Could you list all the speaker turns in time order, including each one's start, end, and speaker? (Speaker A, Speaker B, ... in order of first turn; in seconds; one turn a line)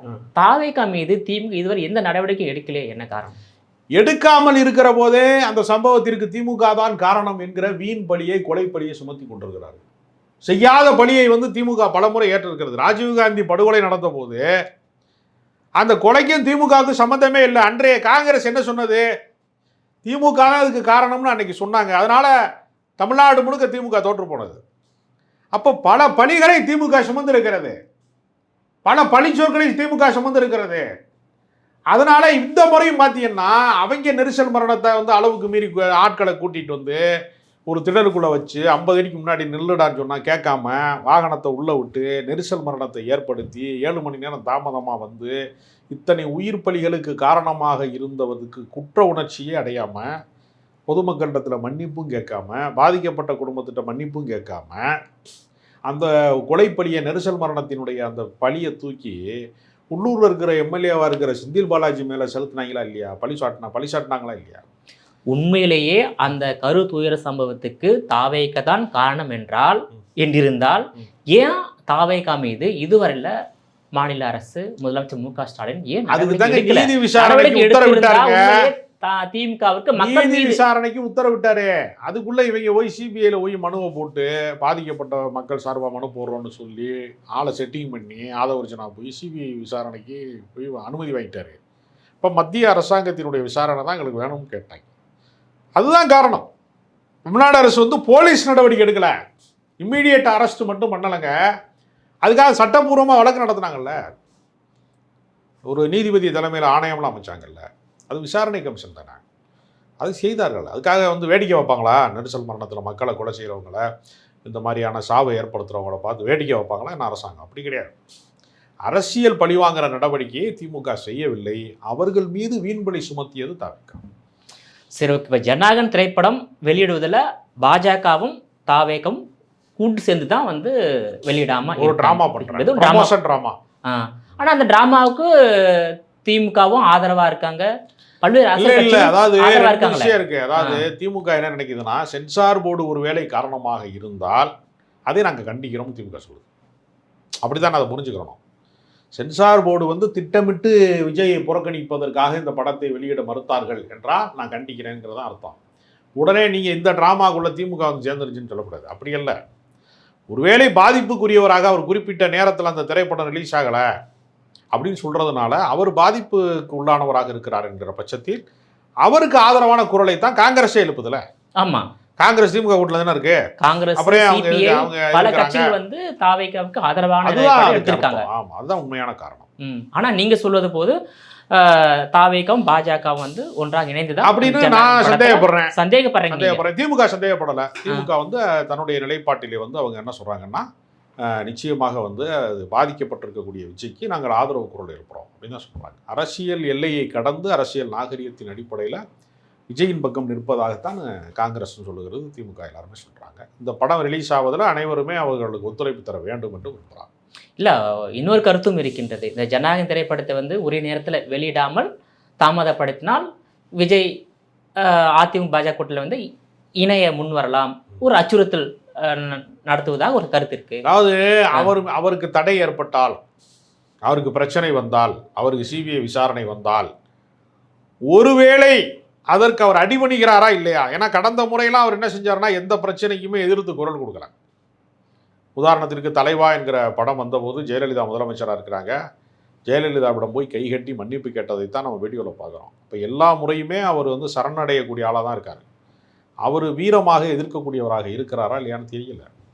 Speaker A: 0.4-3.4
Speaker B: 4.0-9.8
Speaker B: 10.5-14.4
Speaker B: 15.8-19.1
Speaker B: 20.1-22.3
Speaker B: 23.0-24.6
Speaker B: 25.5-27.8
Speaker B: 28.9-30.9
Speaker B: 31.9-37.0
Speaker B: 37.7-45.4
Speaker B: 45.9-50.1
Speaker B: 50.9-55.0
Speaker B: 55.9-59.3
Speaker B: 59.9-64.6
Speaker A: 65.3-73.3
Speaker A: 73.9-80.6
Speaker B: 76.1-78.7
Speaker B: 80.0-91.6
Speaker B: 92.2-94.8
Speaker B: 95.8-96.5
Speaker B: 97.3-99.2
Speaker B: 99.8-101.3
Speaker B: 102.2-104.0
Speaker B: 105.7-109.2
Speaker B: 110.0-113.8
Speaker B: 114.5-117.9
Speaker B: 118.9-124.0
Speaker A: 125.0-129.2
Speaker A: 129.8-130.8
Speaker A: 131.3-133.1
Speaker B: 131.8-133.6
Speaker A: 133.8-137.7
Speaker A: 138.2-140.8
Speaker B: 138.6-144.5
Speaker B: 145.1-146.4
Speaker B: 147.4-148.4
Speaker B: 149.2-155.6
Speaker B: 156.2-159.4
Speaker B: 160.3-163.9
Speaker B: 164.7-168.4
Speaker B: 169.1-171.2
Speaker A: 171.6-171.9
Speaker B: 172.2-173.4
Speaker A: 173.6-178.2
Speaker B: 174.0-175.8
Speaker B: 177.2-179.5
Speaker A: 179.6-181.0
Speaker A: 181.5-186.6
Speaker B: 184.2-185.7
Speaker B: 186.3-190.7
Speaker B: 191.2-199.0
Speaker B: 199.7-207.1
Speaker A: 207.6-211.9
Speaker A: 212.4-213.2
Speaker A: 213.8-214.1
Speaker A: 214.8-216.2
Speaker A: 216.8-220.8
Speaker B: 220.9-223.2
Speaker B: 224.1-226.9
Speaker B: 228.1-228.8
Speaker B: 229.3-234.3
Speaker B: 235.6-239.0
Speaker B: 239.7-245.6
Speaker B: 246.5-249.3